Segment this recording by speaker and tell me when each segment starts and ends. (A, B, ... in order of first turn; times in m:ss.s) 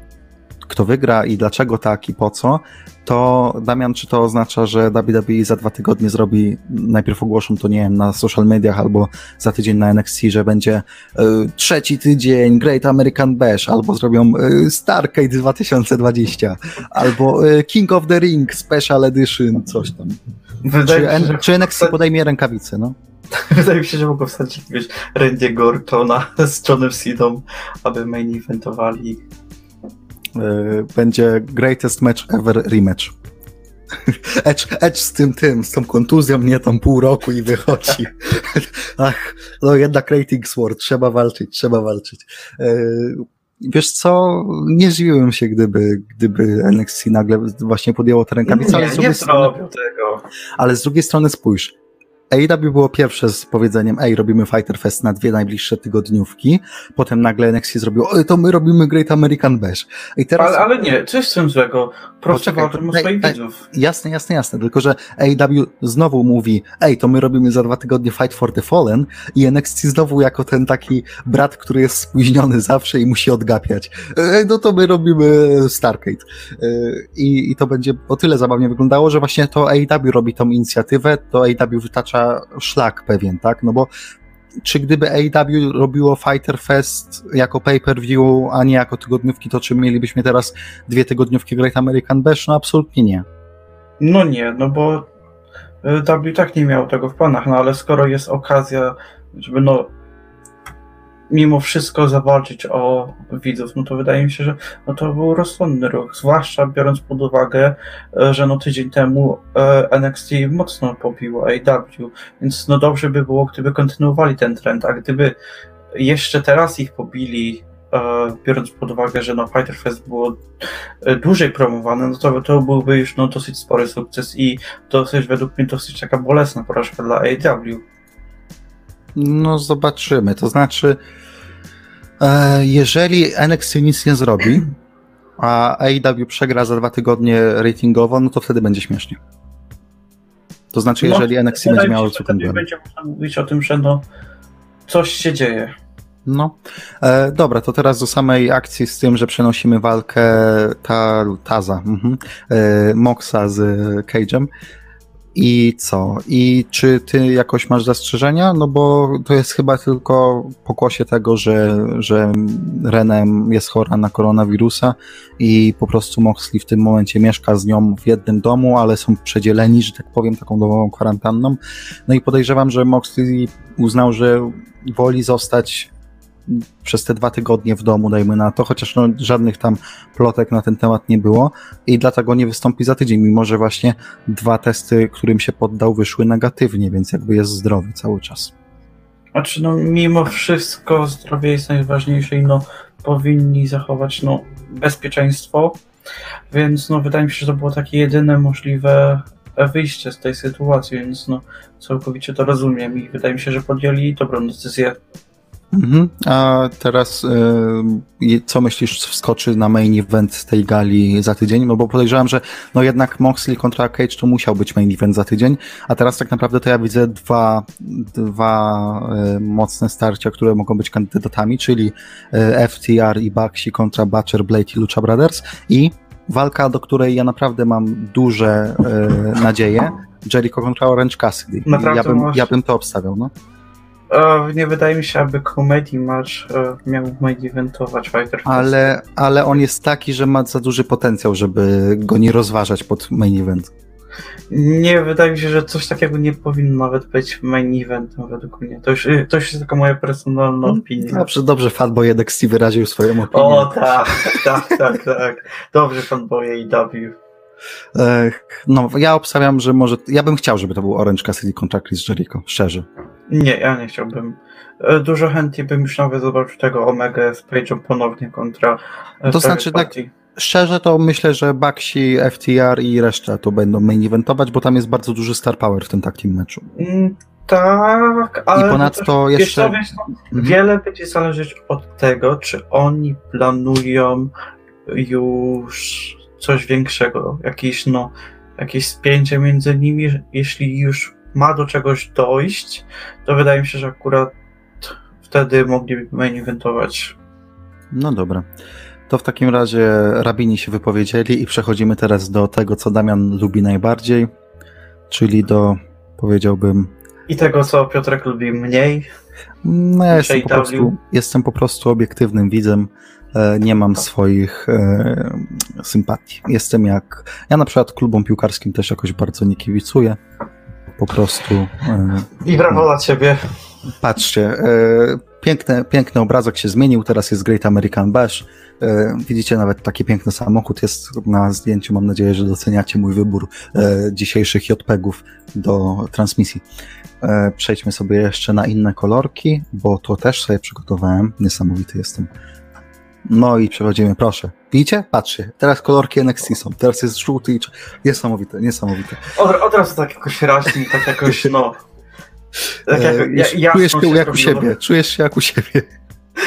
0:00.7-0:20.2 A
0:20.6-0:22.0 B
0:20.8-0:23.0 A
0:23.3-0:29.2 B
0:30.4-0:33.1 A
0:34.1-0:49.5 A
0:48.4-0:50.2 B
0:50.6-0:51.7 A
0:52.3-1:00.6 A
1:00.4-1:03.6 B
1:02.3-1:23.9 A
1:24.6-1:33.2 A
1:34.0-1:35.1 B
1:35.8-1:39.9 B
1:41.3-1:55.4 B
1:55.9-2:00.4 B
2:01.0-2:07.8 B
2:09.2-2:11.0 A
2:12.2-2:14.7 A
2:15.4-2:19.2 A
2:20.7-2:22.6 A
2:21.0-2:24.0 B
2:24.9-2:25.8 B
2:26.3-2:34.5 A
2:35.4-2:55.9 A
2:56.5-3:08.5 A
3:09.3-3:15.8 B
3:16.5-3:25.0 B
3:25.7-3:53.3 A
3:51.7-3:52.5 B
3:54.1-3:58.8 B
3:58.5-4:03.7 A
4:04.5-4:11.3 B
4:10.6-4:14.4 A
4:13.3-4:17.2 B
4:18.0-4:22.9 A
4:23.3-4:30.1 B
4:29.3-4:36.7 A
4:36.8-4:44.3 B
4:38.6-4:39.8 A
4:40.3-4:40.6 A
4:44.9-4:57.2 B
4:57.9-4:58.5 A
4:59.1-5:04.3 A
5:05.1-5:06.9 A
5:07.3-5:09.1 B
5:09.6-5:20.2 A
5:10.1-5:10.9 B
5:21.0-5:22.9 A
5:22.4-5:23.4 B
5:24.0-5:36.6 A
5:37.2-5:42.3 A
5:43.3-5:49.3 A
5:49.3-5:51.8 B
5:52.9-5:54.7 B
5:52.9-5:55.9 A